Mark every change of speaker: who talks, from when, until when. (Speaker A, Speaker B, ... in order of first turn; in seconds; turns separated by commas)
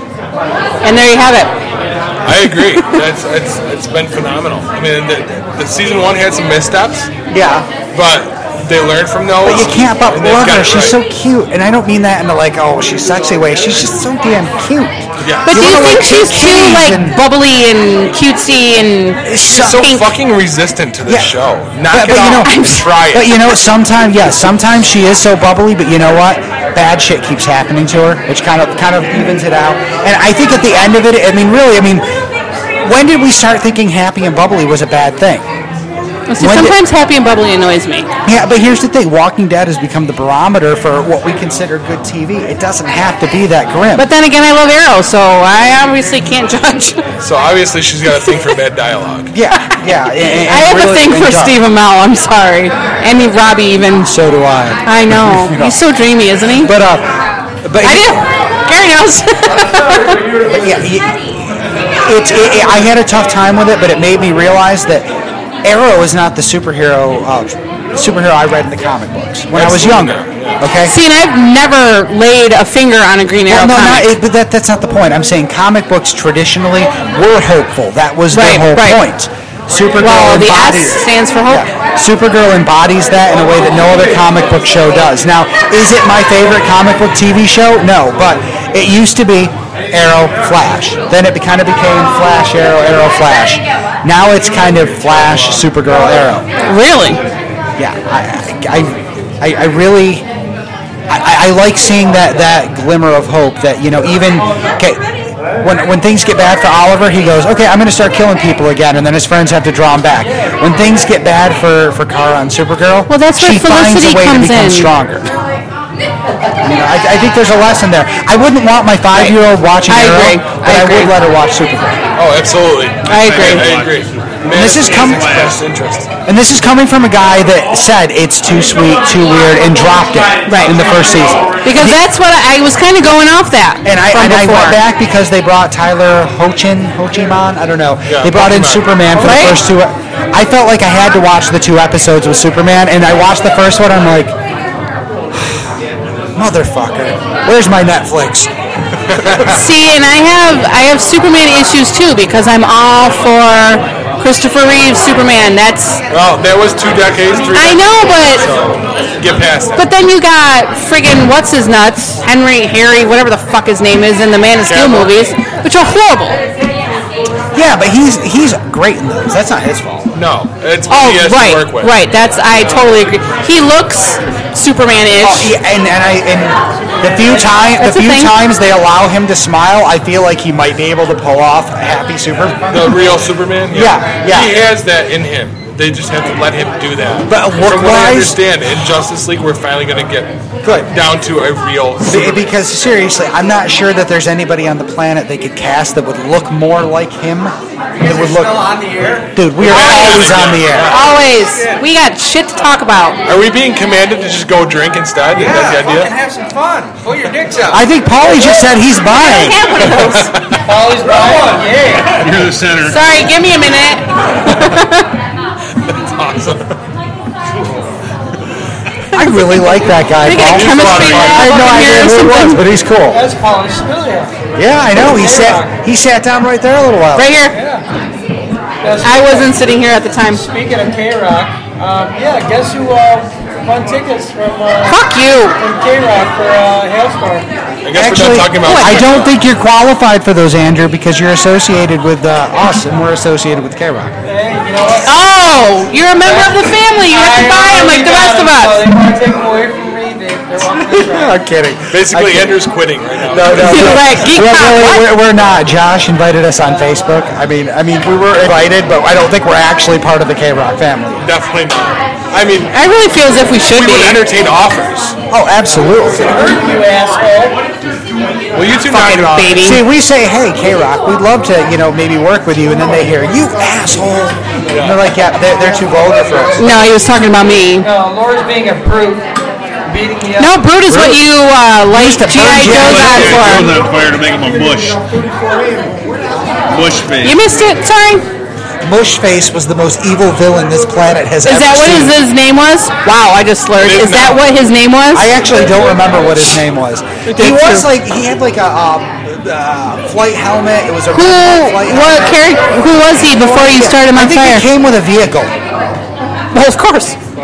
Speaker A: 0.8-1.5, Speaker B: 2.2-7.1, Speaker A: 2.6-3.0, Speaker C: 7.3-7.7, Speaker B: 7.9-11.0, Speaker C: 9.4-17.2, Speaker B: 15.2-15.8, Speaker A: 15.4-20.1, Speaker C: 19.2-19.9, Speaker B: 19.5-23.4, Speaker C: 21.1-21.3, Speaker C: 21.9-32.0, Speaker A: 22.4-22.9, Speaker C: 32.8-35.4, Speaker A: 36.3-38.1, Speaker C: 36.4-36.8, Speaker C: 38.2-44.0, Speaker A: 43.9-47.0, Speaker B: 47.2-49.3, Speaker C: 49.3-51.6, Speaker A: 49.5-54.1, Speaker C: 54.0-55.8, Speaker A: 54.8-56.7, Speaker C: 56.6-58.2, Speaker A: 57.8-60.2, Speaker C: 60.4-65.1, Speaker C: 65.6-70.9, Speaker B: 69.5-70.6, Speaker A: 70.8-74.2, Speaker C: 73.5-96.5, Speaker A: 78.3-79.0, Speaker A: 80.0-81.7, Speaker A: 96.6-97.2, Speaker C: 97.8-100.2, Speaker C: 101.1-105.0, Speaker C: 105.6-115.3, Speaker A: 113.1-114.9, Speaker C: 116.6-122.0, Speaker A: 119.9-121.1, Speaker B: 122.2-126.1, Speaker A: 123.0-123.7, Speaker D: 123.1-125.6, Speaker C: 124.5-125.3, Speaker C: 126.2-132.0, Speaker A: 130.4-130.8, Speaker A: 131.6-134.8, Speaker C: 133.8-144.3, Speaker B: 138.1-139.0, Speaker A: 139.1-139.6, Speaker C: 145.3-145.6, Speaker C: 146.3-148.5, Speaker C: 149.1-149.6, Speaker A: 149.4-156.0, Speaker B: 156.1-159.8, Speaker A: 157.5-158.4, Speaker A: 159.8-166.4, Speaker B: 164.6-165.3, Speaker C: 167.5-170.1, Speaker B: 170.1-171.9, Speaker A: 170.9-175.5, Speaker C: 175.2-183.0, Speaker A: 177.8-178.3, Speaker B: 182.7-190.3, Speaker C: 183.7-184.6, Speaker C: 187.3-188.4, Speaker C: 190.6-190.9, Speaker B: 190.9-192.5, Speaker C: 192.1-201.0, Speaker B: 199.6-201.1, Speaker A: 200.9-203.2, Speaker B: 203.2-206.2, Speaker C: 207.6-209.8, Speaker A: 209.1-210.3, Speaker B: 209.9-210.6, Speaker E: 210.6-212.3, Speaker D: 212.2-213.0, Speaker A: 212.8-215.1, Speaker B: 215.8-216.7, Speaker C: 219.1-223.2, Speaker A: 220.2-222.6, Speaker B: 220.3-221.5, Speaker E: 223.1-224.3, Speaker C: 224.6-227.3, Speaker E: 224.9-225.7, Speaker A: 227.1-227.6, Speaker E: 227.5-227.8, Speaker E: 228.8-229.6, Speaker A: 229.0-230.4, Speaker E: 230.3-237.5, Speaker A: 234.9-235.6, Speaker B: 237.8-239.3, Speaker C: 237.9-244.1, Speaker A: 238.6-239.0, Speaker E: 244.2-245.1, Speaker A: 245.0-248.8, Speaker E: 246.2-251.3, Speaker C: 250.7-252.7, Speaker B: 251.9-254.0, Speaker C: 253.3-261.2, Speaker A: 253.5-255.1, Speaker B: 261.2-262.7, Speaker A: 262.7-264.2, Speaker B: 263.7-265.1, Speaker C: 265.3-266.4, Speaker E: 266.1-267.6, Speaker B: 268.5-269.5, Speaker A: 268.9-269.8, Speaker C: 269.0-276.6, Speaker B: 274.7-275.0, Speaker A: 276.6-277.9, Speaker E: 277.8-279.3, Speaker E: 279.9-280.6, Speaker A: 280.4-283.7, Speaker C: 280.9-281.3, Speaker C: 281.9-283.6, Speaker D: 282.6-285.2, Speaker D: 286.7-287.4, Speaker A: 287.2-288.2, Speaker C: 288.8-292.2, Speaker A: 291.4-295.3, Speaker B: 293.8-294.5, Speaker C: 295.1-302.6, Speaker A: 297.2-297.9, Speaker A: 301.1-304.7, Speaker C: 303.1-305.6, Speaker A: 306.5-307.1